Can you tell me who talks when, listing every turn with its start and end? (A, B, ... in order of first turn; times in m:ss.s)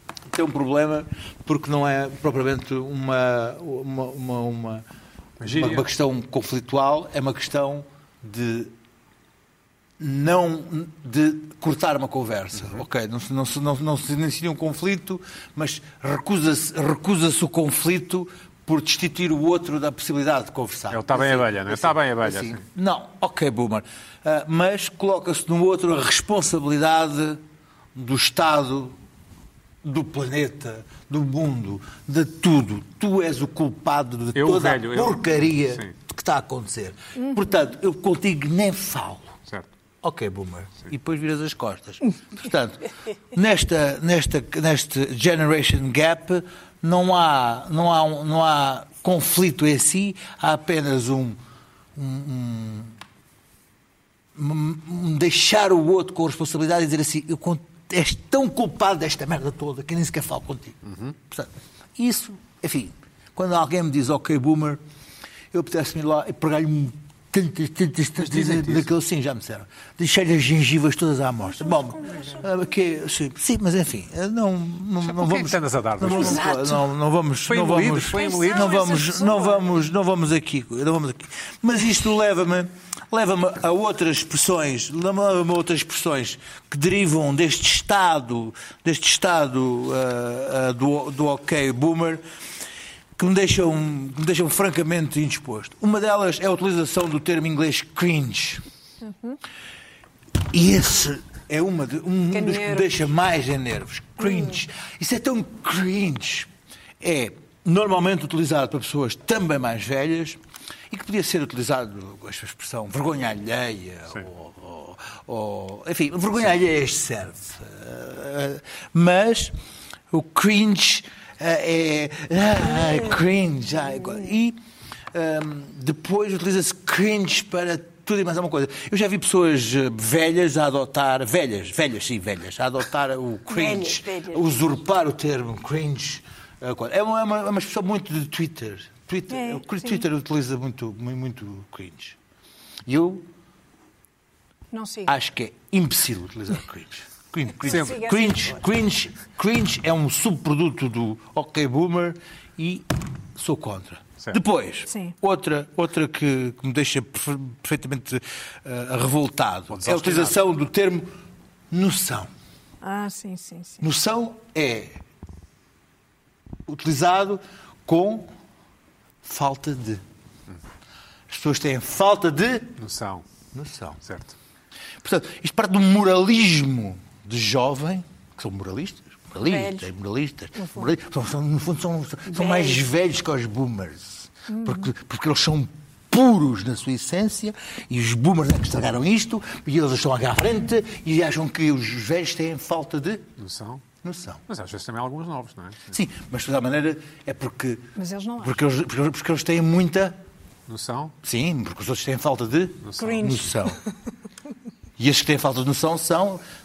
0:00.3-0:04.8 A
0:05.4-0:05.9 B
0:05.4-0:08.7 A
0:10.0-0:27.4 A
0:20.9-0:22.6 B
0:28.0-0:29.0 A
0:29.8-0:39.3 A
0:34.4-0:36.0 B
0:40.0-0:51.4 A
0:52.0-0:53.0 A
0:54.4-1:04.8 A
1:00.9-1:01.1 B
1:05.5-1:32.2 A
1:08.2-1:08.9 B
1:11.5-1:12.5 C
1:15.0-1:16.5 B
1:16.0-1:16.8 C
1:17.5-1:18.8 B
1:18.1-1:19.7 C
1:33.2-1:38.6 A
1:39.0-1:39.4 C
1:40.4-1:46.5 A
1:42.3-1:43.0 C
1:47.0-1:50.4 A
1:50.9-1:59.5 A
2:00.1-2:04.6 A
2:05.1-2:22.2 A
2:13.5-2:14.4 C
2:19.3-2:20.0 C
2:22.9-2:23.3 A
2:24.7-2:25.1 C
2:25.1-2:41.1 A
2:27.6-2:28.6 C
2:27.7-2:28.0 B
2:34.9-2:35.2 C
2:39.7-2:40.4 B
2:41.7-2:42.3 A
2:42.8-2:43.8 C
2:43.8-2:45.0 A
2:46.7-2:48.3 A
2:49.2-2:50.0 A
2:51.3-2:52.8 A
2:52.8-2:53.2 B
2:53.5-2:54.0 A
2:54.0-2:54.3 B
2:55.0-3:13.3 A
2:59.4-2:59.9 C
3:00.6-3:00.9 C
3:02.3-3:02.8 C
3:04.5-3:04.9 C
3:13.4-3:13.8 B
3:14.0-3:14.4 A
3:14.5-3:16.0 B
3:15.9-3:17.9 A
3:18.0-3:18.6 C
3:18.4-3:20.2 A
3:20.7-3:21.1 B
3:21.2-3:23.8 A
3:22.9-3:23.2 B
3:23.0-3:23.8 C
3:25.0-3:26.4 A